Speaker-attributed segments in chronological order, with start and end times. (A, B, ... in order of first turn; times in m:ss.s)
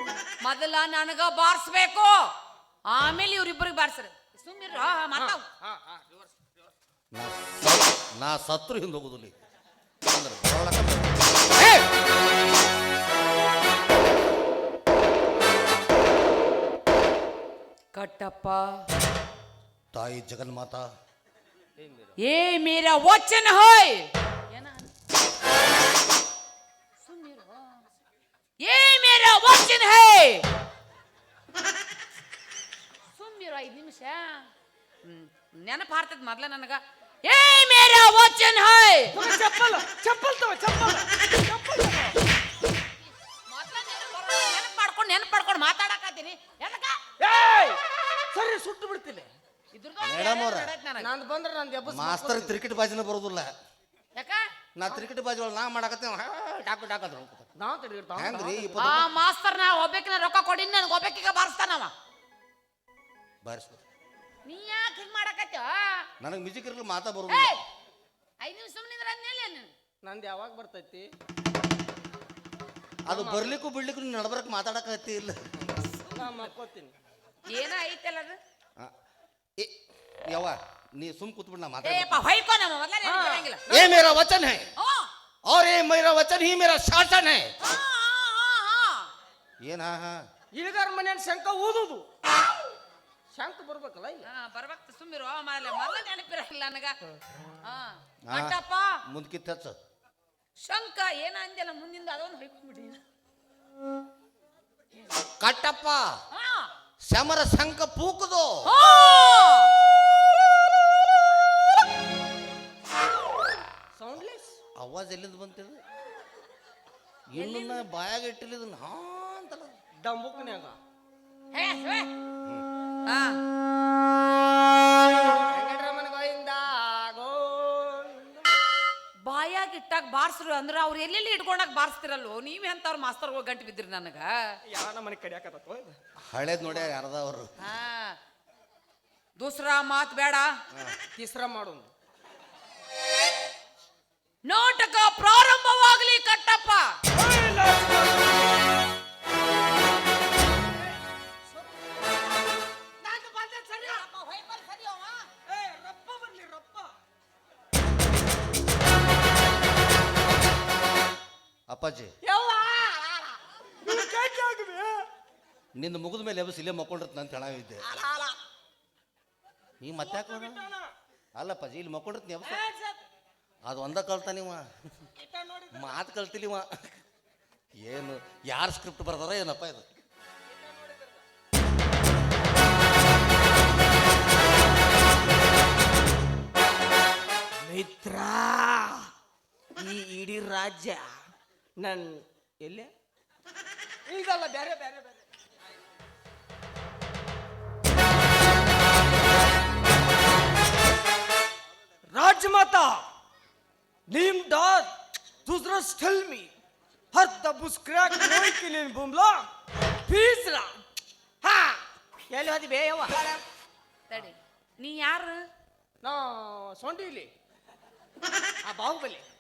0:00.4-0:02.2 A
0:02.9-0:05.4 A
0:05.2-0:06.3 B
0:07.1-0:09.3 C
0:10.1-0:11.4 C
0:17.9-0:18.8 A
0:19.9-0:20.8 C
0:21.8-0:22.2 B
0:22.2-0:24.9 A
0:27.0-0:27.8 A
0:28.6-0:30.4 A
0:33.2-0:34.5 A
0:35.0-0:39.1 A
0:39.2-0:42.2 B
0:43.5-0:47.0 A
0:47.2-0:47.8 B
0:48.3-0:49.3 B
0:49.7-0:51.1 A
0:50.0-0:50.7 C
0:51.0-0:52.6 B
0:51.8-0:53.5 C
0:54.2-0:54.4 A
0:54.8-0:57.5 C
0:57.6-0:59.1 B
0:58.2-0:59.0 C
0:58.8-1:01.9 A
1:03.4-1:03.8 C
1:04.5-1:06.1 A
1:06.2-1:07.6 C
1:07.3-1:07.6 A
1:08.4-1:09.7 A
1:10.0-1:11.1 B
1:13.1-1:15.4 C
1:13.1-1:13.6 B
1:16.2-1:16.9 B
1:17.5-1:18.4 A
1:19.6-1:22.2 C
1:21.8-1:23.6 A
1:23.0-1:24.2 B
1:23.7-1:24.7 C
1:24.8-1:25.1 A
1:25.4-1:27.5 C
1:27.6-1:29.1 A
1:29.6-1:30.2 C
1:30.5-1:32.1 B
1:33.3-1:34.3 B
1:34.2-1:37.0 A
1:37.6-1:39.0 A
1:38.3-1:38.6 C
1:39.1-1:39.8 C
1:40.6-1:43.0 A
1:45.4-1:46.1 C
1:46.3-1:46.7 A
1:47.1-1:48.7 C
1:48.7-1:49.7 A
1:54.0-1:54.6 B
1:54.8-1:55.8 C
1:57.3-1:59.7 C
1:57.4-1:57.8 A
2:00.0-2:00.8 B
2:01.5-2:02.1 A
2:03.1-2:03.4 A
2:05.5-2:08.5 B
2:09.3-2:14.3 A
2:14.7-2:16.0 B
2:16.3-2:17.5 C
2:17.6-2:18.2 A
2:19.4-2:20.5 A
2:21.2-2:21.9 B
2:24.5-2:27.0 A
2:27.2-2:28.4 B
2:33.0-2:34.0 B
2:33.7-2:35.3 A
2:35.5-2:36.9 B
2:41.7-2:42.1 C
2:42.2-2:45.1 B
2:45.8-2:47.9 C
2:47.8-2:48.4 B
2:49.8-2:50.7 C
2:50.0-2:50.9 B
2:51.4-2:52.6 C
2:52.4-2:53.0 B
2:53.7-2:54.6 C
2:55.2-2:56.0 B
2:55.7-2:56.9 C
2:57.8-2:59.8 C
3:00.5-3:01.2 B
3:07.6-3:09.1 B
3:09.8-3:11.1 B
3:11.8-3:12.1 B
3:12.6-3:12.9 B
3:14.1-3:15.2 B
3:22.1-3:23.0 B
3:24.1-3:24.9 B
3:25.5-3:26.5 B
3:27.1-3:29.5 B
3:30.1-3:30.8 B
3:31.4-3:33.2 B
3:34.1-3:35.4 A
3:36.0-3:37.3 B
3:38.7-3:39.3 B